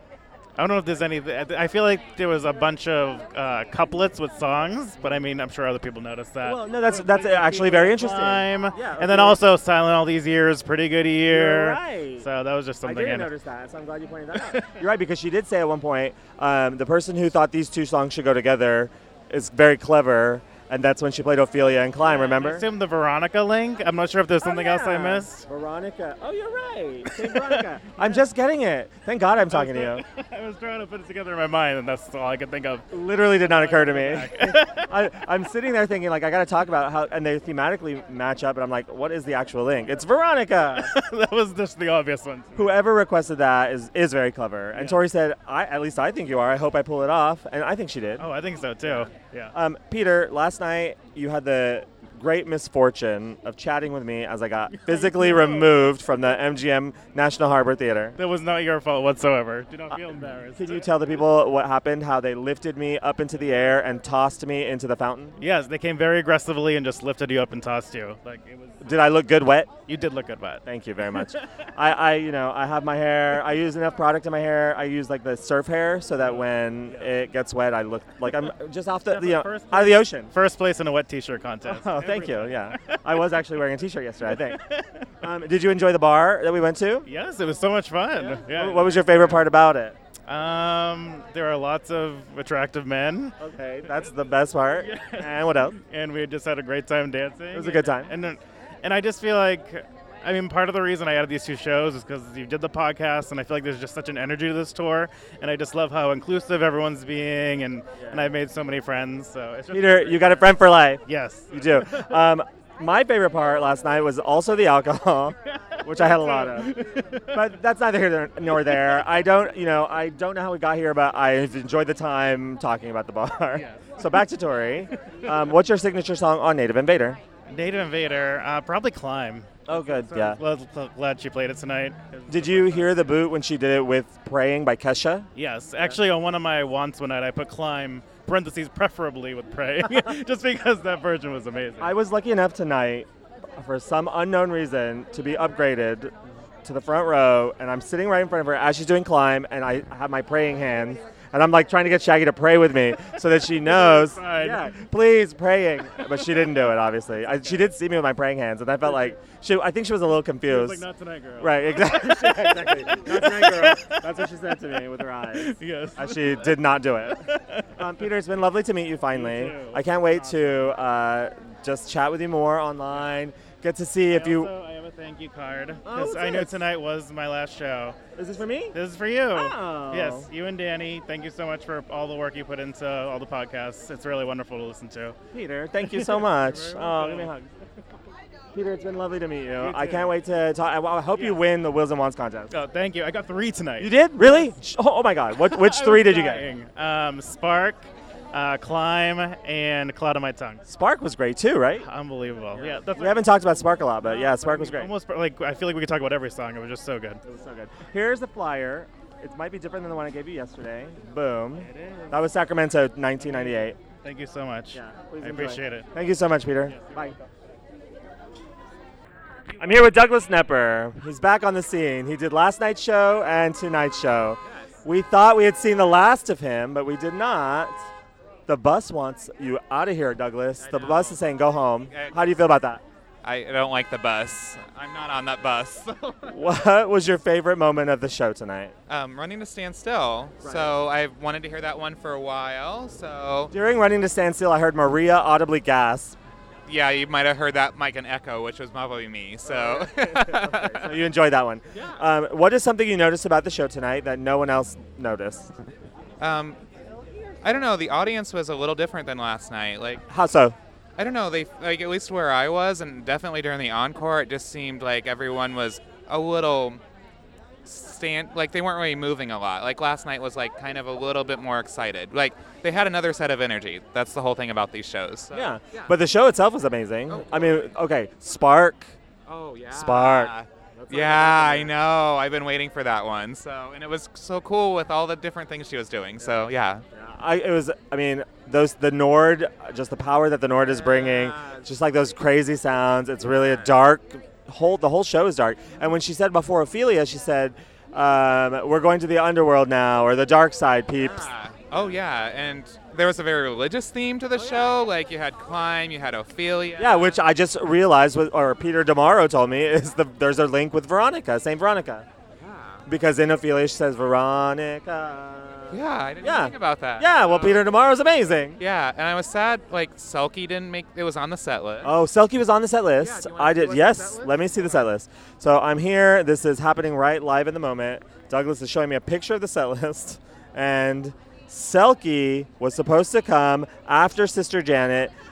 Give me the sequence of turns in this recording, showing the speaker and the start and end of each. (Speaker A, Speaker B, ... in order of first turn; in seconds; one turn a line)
Speaker A: 0.6-13.3
Speaker B: 6.4-9.4
Speaker B: 11.3-12.3
Speaker B: 12.8-22.7
Speaker A: 14.3-14.7
Speaker A: 22.0-25.4
Speaker B: 24.4-30.0
Speaker A: 27.1-28.2
Speaker A: 29.5-35.0
Speaker B: 32.9-40.9
Speaker A: 40.6-42.8
Speaker B: 42.5-48.3
Speaker A: 44.7-45.0
Speaker A: 48.2-49.5
Speaker B: 48.8-58.2
Speaker A: 54.7-55.8
Speaker A: 58.2-61.3
Speaker B: 60.5-65.4
Speaker A: 65.4-68.8
Speaker B: 68.8-69.7
Speaker A: 69.9-71.5
Speaker B: 70.7-80.3
Speaker A: 76.2-77.2
Speaker A: 79.1-83.3
Speaker B: 81.7-84.6
Speaker A: 84.2-85.1
Speaker B: 85.2-87.1
Speaker A: 87.1-89.5
Speaker B: 88.2-90.0
Speaker A: 90.3-93.4
Speaker B: 93.4-95.8
Speaker A: 94.8-112.2
Speaker B: 97.5-98.1
Speaker B: 108.0-108.3
Speaker B: 109.7-127.2
Speaker A: 115.5-117.5
Speaker A: 118.5-119.0
Speaker A: 123.5-124.3
Speaker A: 125.0-125.5
Speaker A: 127.5-133.2
Speaker B: 129.7-130.4
Speaker B: 132.3-135.3
Speaker A: 135.4-141.9
Speaker B: 141.8-146.1
Speaker B: 146.6-160.8
Speaker A: 153.5-154.7
Speaker A: 156.2-157.7
Speaker A: 158.8-159.2
Speaker A: 160.4-164.3
Speaker B: 161.4-174.5
Speaker A: 165.3-167.9
Speaker A: 169.1-170.7
Speaker A: 174.1-178.0
Speaker B: 175.8-176.6
Speaker B: 178.2-178.8
Speaker A: 178.7-185.2
Speaker B: 179.3-180.3
Speaker B: 185.3-187.4
Speaker A: 185.8-187.4
Speaker B: 188.5-192.5
Speaker A: 189.6-190.2
Speaker A: 191.1-191.4
Speaker A: 192.5-194.6
Speaker B: 193.8-196.5
Speaker A: 195.3-200.6
Speaker B: 200.7-201.8
Speaker A: 201.8-207.2
Speaker B: 202.5-204.9
Speaker B: 207.2-213.8
Speaker A: 211.6-212.3
Speaker A: 213.2-215.9
Speaker B: 214.7-217.2
Speaker A: 216.7-217.3
Speaker B: 219.6-227.9
Speaker C: 224.4-224.7
Speaker B: 228.5-232.8
Speaker C: 230.6-231.3
Speaker C: 231.9-232.2
Speaker C: 233.2-236.4
Speaker B: 236.3-238.8
Speaker C: 238.9-243.5
Speaker B: 240.4-240.8
Speaker B: 243.5-246.2
Speaker C: 246.7-251.0
Speaker B: 249.5-255.5
Speaker C: 251.7-252.0
Speaker C: 256.2-256.6
Speaker C: 257.4-260.1
Speaker B: 260.1-260.6
Speaker C: 261.0-266.8
Speaker C: 267.6-275.9
Speaker B: 275.3-278.9
Speaker C: 277.1-277.7
Speaker C: 279.3-286.9
Speaker B: 279.7-281.7
Speaker B: 286.9-301.3
Speaker C: 290.6-291.7
Speaker C: 293.2-293.7
Speaker C: 301.0-307.2
Speaker B: 304.4-304.6
Speaker B: 306.8-312.1
Speaker C: 312.4-312.9
Speaker B: 312.9-318.6
Speaker C: 315.7-317.7
Speaker C: 318.6-321.9
Speaker B: 321.8-335.1
Speaker C: 323.0-324.9